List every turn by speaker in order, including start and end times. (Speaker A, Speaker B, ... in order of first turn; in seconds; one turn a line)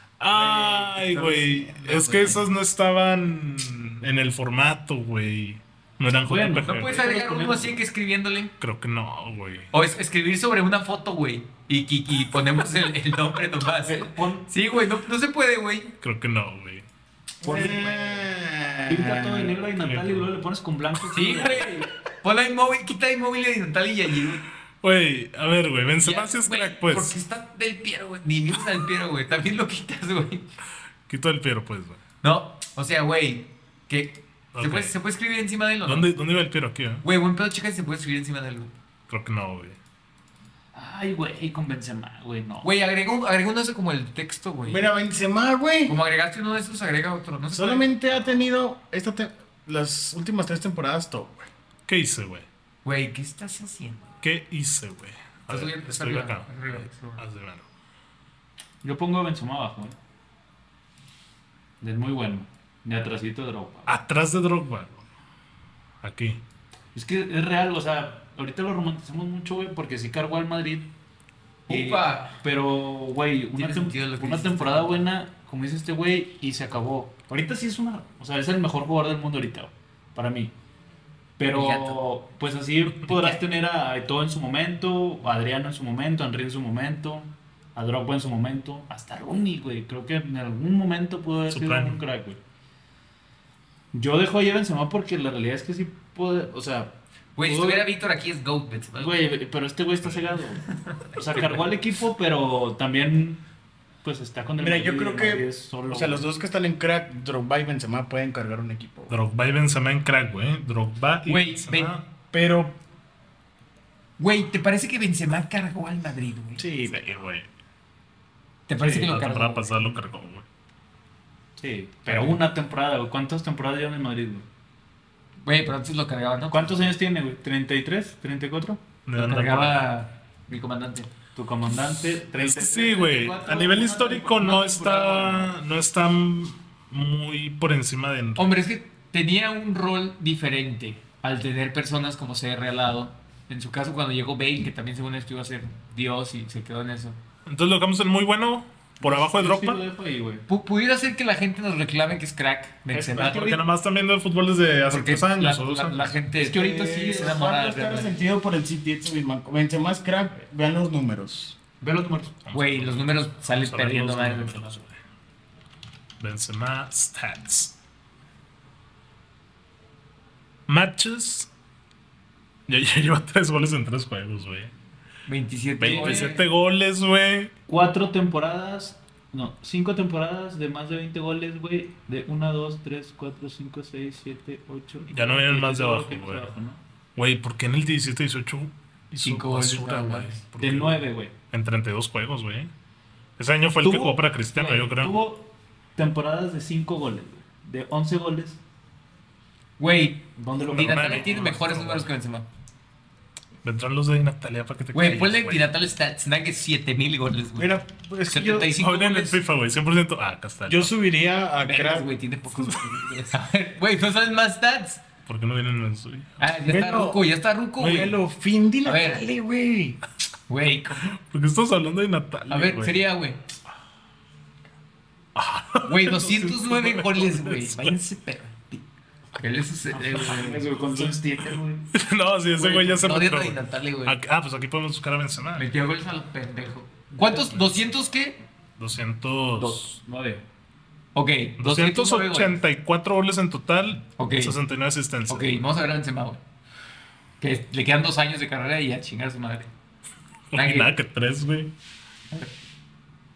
Speaker A: 0.2-7.0
Speaker B: 0.3-2.5
Speaker C: 6.2-7.8
Speaker B: 6.6-8.5
Speaker A: 8.6-9.7
Speaker B: 9.7-16.0
Speaker C: 13.8-14.5
Speaker A: 16.0-16.8
Speaker D: 17.4-19.6
Speaker C: 17.4-17.8
Speaker B: 17.4-18.2
Speaker C: 18.9-21.8
Speaker A: 19.8-20.3
Speaker B: 21.1-24.5
Speaker A: 24.8-27.2
Speaker B: 26.0-30.5
Speaker A: 31.1-32.0
Speaker B: 32.2-36.1
Speaker A: 34.5-34.9
Speaker A: 35.8-37.0
Speaker B: 37.0-38.7
Speaker A: 39.1-39.8
Speaker C: 40.7-42.7
Speaker B: 42.6-44.9
Speaker D: 44.6-46.0
Speaker B: 45.9-48.0
Speaker D: 47.5-51.5
Speaker A: 51.9-52.5
Speaker B: 52.8-54.1
Speaker A: 54.2-57.6
Speaker B: 55.5-57.2
Speaker C: 58.8-60.0
Speaker C: 61.8-63.9
Speaker A: 63.9-65.0
Speaker A: 66.0-66.4
Speaker C: 66.9-70.9
Speaker B: 71.7-72.4
Speaker C: 71.7-80.5
Speaker B: 73.5-75.0
Speaker C: 81.4-92.4
Speaker B: 81.5-82.0
Speaker A: 91.5-92.0
Speaker C: 93.9-97.9
Speaker B: 97.3-99.2
Speaker C: 99.0-103.4
Speaker B: 100.9-101.6
Speaker C: 104.0-106.2
Speaker D: 104.6-109.1
Speaker A: 109.1-112.0
Speaker B: 111.3-112.0
Speaker D: 112.3-112.8
Speaker B: 114.2-116.6
Speaker D: 116.6-117.1
Speaker A: 116.9-117.5
Speaker B: 118.7-119.7
Speaker C: 118.8-119.2
Speaker A: 118.8-120.4
Speaker C: 121.6-124.4
Speaker A: 122.1-122.3
Speaker B: 125.4-126.7
Speaker C: 126.5-128.8
Speaker A: 129.1-129.8
Speaker B: 129.2-131.1
Speaker C: 131.3-135.5
Speaker A: 132.3-138.6
Speaker B: 138.3-147.2
Speaker A: 147.4-149.8
Speaker C: 149.0-150.4
Speaker B: 150.5-153.6
Speaker C: 152.9-153.6
Speaker A: 153.3-156.2
Speaker B: 154.9-158.2
Speaker D: 156.4-161.6
Speaker C: 161.8-162.4
Speaker A: 162.4-164.9
Speaker B: 162.5-164.8
Speaker A: 166.2-167.8
Speaker A: 170.7-171.5
Speaker A: 172.7-174.7
Speaker B: 175.2-176.4
Speaker A: 175.8-177.5
Speaker C: 175.8-176.4
Speaker C: 177.7-186.8
Speaker A: 185.1-186.5
Speaker A: 187.2-192.7
Speaker B: 189.2-190.4
Speaker C: 190.6-191.3
Speaker A: 193.4-195.1
Speaker C: 193.8-198.6
Speaker B: 199.8-202.5
Speaker C: 200.3-201.5
Speaker A: 200.7-202.1
Speaker A: 203.6-205.7
Speaker B: 204.9-209.4
Speaker D: 207.6-208.8
Speaker A: 208.8-210.9
Speaker D: 210.7-212.1
Speaker B: 211.6-215.0
Speaker A: 212.5-213.1
Speaker A: 215.2-216.3
Speaker B: 216.4-218.2
Speaker D: 216.7-217.2
Speaker D: 217.8-220.0
Speaker B: 218.8-219.2
Speaker B: 220.5-221.2
Speaker A: 221.2-223.0
Speaker B: 222.5-223.4
Speaker A: 225.3-228.0
Speaker B: 225.8-228.8
Speaker B: 229.3-230.7
Speaker C: 229.9-231.9
Speaker A: 230.9-235.7
Speaker C: 232.6-233.0
Speaker B: 232.7-234.2
Speaker B: 235.6-238.4
Speaker C: 237.2-237.5
Speaker A: 237.3-237.9
Speaker A: 238.8-240.0
Speaker C: 239.6-240.4
Speaker B: 241.1-242.6
Speaker A: 241.6-245.6
Speaker B: 244.2-244.6
Speaker B: 245.3-246.4
Speaker B: 247.4-249.7
Speaker A: 250.5-251.7
Speaker B: 250.5-250.9